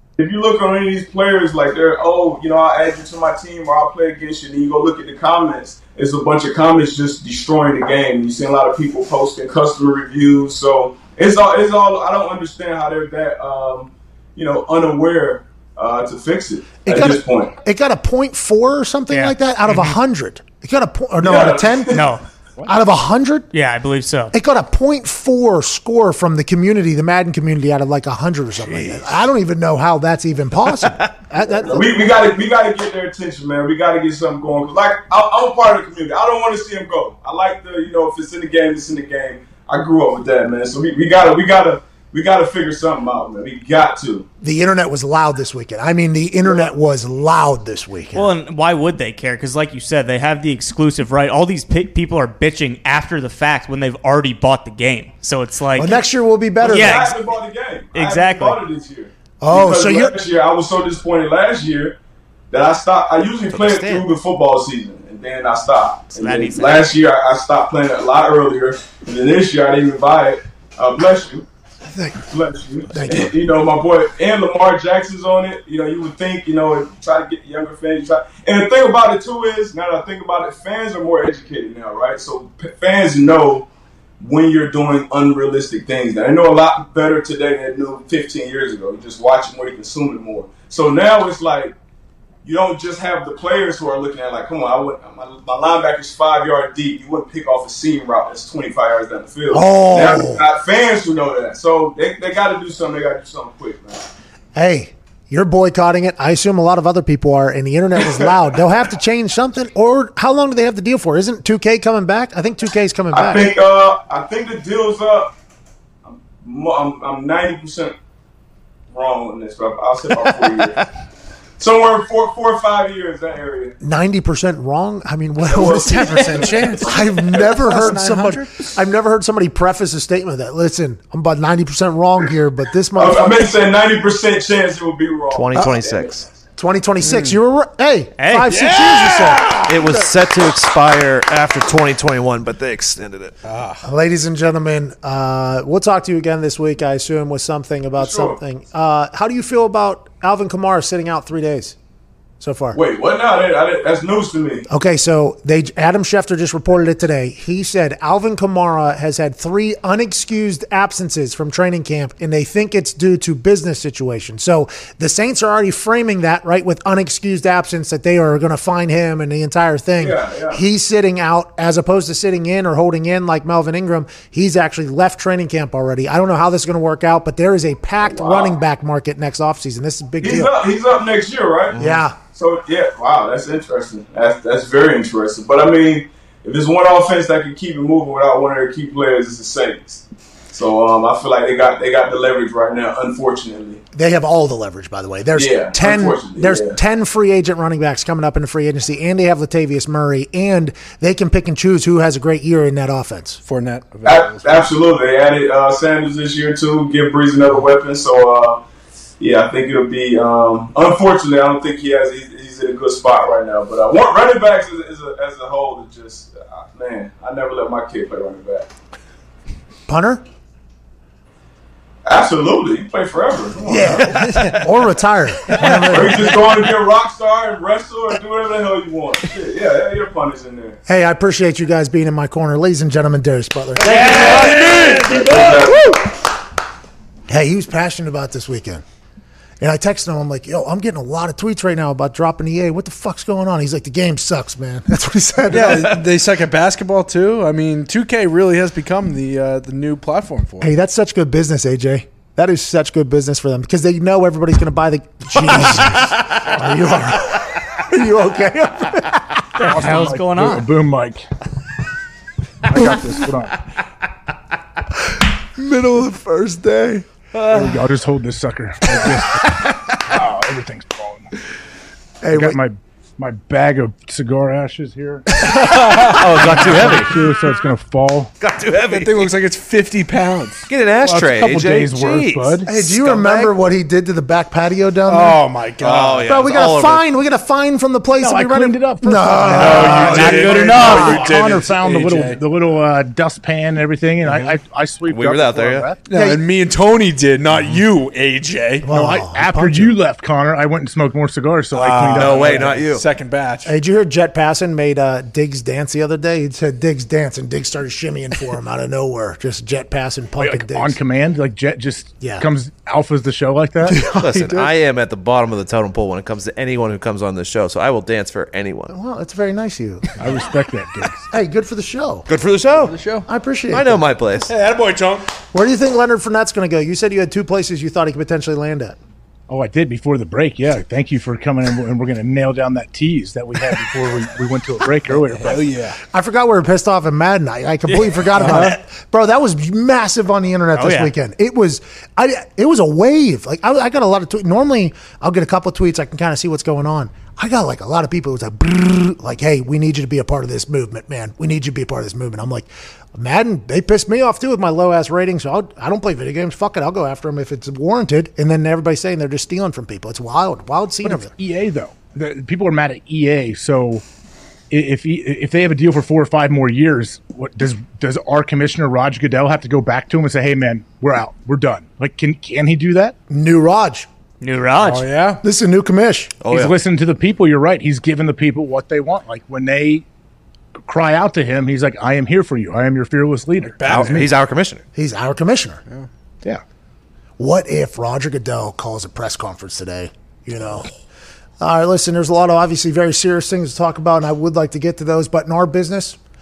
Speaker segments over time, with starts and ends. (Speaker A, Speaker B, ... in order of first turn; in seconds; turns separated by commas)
Speaker A: 0.2-17.5, Speaker B: 16.8-22.0, Speaker C: 19.1-19.9, Speaker A: 21.2-22.1, Speaker C: 21.9-22.2, Speaker B: 22.6-23.5, Speaker C: 23.5-24.3, Speaker B: 24.3-31.9, Speaker D: 28.7-29.1, Speaker A: 31.5-44.2, Speaker B: 44.4-48.3, Speaker C: 48.1-56.0, Speaker B: 55.8-57.1, Speaker C: 56.6-57.2, Speaker A: 56.6-62.0, Speaker C: 57.9-58.6, Speaker B: 59.4-60.1, Speaker A: 62.5-71.4, Speaker C: 66.1-66.8, Speaker B: 71.9-72.2, Speaker A: 72.3-83.7, Speaker B: 72.9-73.3, Speaker A: 84.2-91.7, Speaker A: 92.4-104.0, Speaker B: 99.5-100.4, Speaker B: 104.5-113.5, Speaker A: 113.1-115.3, Speaker A: 116.0-118.0, Speaker A: 118.9-120.8, Speaker A: 121.6-123.7, Speaker B: 123.8-133.5, Speaker A: 125.4-127.9, Speaker E: 125.8-126.9, Speaker E: 127.5-128.5, Speaker A: 132.9-136.2, Speaker F: 135.3-136.2, Speaker B: 135.5-135.8, Speaker B: 136.6-139.4, Speaker E: 137.0-137.4, Speaker C: 138.2-138.5, Speaker E: 138.5-140.0, Speaker F: 139.7-143.3, Speaker E: 143.4-143.8, Speaker B: 143.8-151.8, Speaker A: 148.0-148.4, Speaker B: 152.4-152.8, Speaker A: 152.7-154.7, Speaker B: 154.7-180.6, Speaker A: 170.0-170.6, Speaker A: 178.0-178.5, Speaker A: 180.2-193.8, Speaker F: 181.7-182.0, Speaker B: 181.8-182.2, Speaker B: 193.9-203.4, Speaker A: 195.3-196.8, Speaker E: 203.4-204.7, Speaker A: 204.0-208.6, Speaker A: 209.2-218.7, Speaker B: 219.9-220.2, Speaker A: 222.0-224.0, Speaker B: 223.6-226.4, Speaker C: 224.1-224.5, Speaker A: 225.9-230.8, Speaker B: 230.8-235.8, Speaker E: 233.8-235.8, Speaker A: 233.9-235.8, Speaker B: 237.3-238.8, Speaker B: 239.6-246.0, Speaker E: 245.5-250.7, Speaker B: 250.6-259.2, Speaker C: 255.5-256.3, Speaker D: 259.6-261.2, Speaker C: 259.6-260.6, Speaker D: 262.7-263.6, Speaker B: 265.6-267.0, Speaker D: 267.5-271.3, Speaker B: 272.2-272.6, Speaker D: 272.3-275.5, Speaker E: 275.5-276.7, Speaker F: 275.7-277.5, Speaker D: 276.1-278.3, Speaker F: 278.4-279.3, Speaker E: 278.9-280.6, Speaker F: 280.7-283.5, Speaker D: 281.0-282.6, Speaker B: 282.6-285.4, Speaker E: 285.1-286.5, Speaker F: 285.8-287.1, Speaker B: 286.3-291.2, Speaker D: 288.2-296.0, Speaker E: 289.5-292.4, Speaker F: 290.2-290.8, Speaker F: 295.1-295.9, Speaker E: 296.1-299.0, Speaker B: 296.1-296.4, Speaker B: 298.8-300.0, Speaker D: 298.9-302.8, Speaker E: 301.7-303.7, Speaker F: 302.1-303.0, Speaker B: 303.6-311.0, Speaker D: 310.4-314.1, Speaker B: 312.2-312.4, Speaker B: 313.8-314.7, Speaker F: 314.1-318.9, Speaker B: 318.9-320.1, Speaker D: 320.2-321.2, Speaker B: 321.3-322.2, Speaker F: 322.3-322.9, Speaker E: 322.8-323.3, Speaker B: 323.3-324.0, Speaker F: 323.7-324.5, Speaker E: 324.5-325.2, Speaker B: 325.5-329.0, Speaker D: 329.5-335.8, Speaker E: 335.1-335.9, Speaker B: 336.1-361.3, Speaker D: 337.9-338.7, Speaker E: 338.4-338.7, Speaker C: 340.7-341.1, Speaker D: 361.0-364.0, Speaker D: 364.7-373.1, Speaker B: 373.3-374.1, Speaker C: 374.4-375.1, Speaker E: 374.8-375.4, Speaker B: 375.4-376.3, Speaker F: 376.4-376.8, Speaker D: 376.5-380.0, Speaker D: 380.9-384.2, Speaker E: 383.8-384.3, Speaker F: 383.9-384.8, Speaker B: 384.9-385.8, Speaker B: 387.4-390.9, Speaker B: 391.6-396.2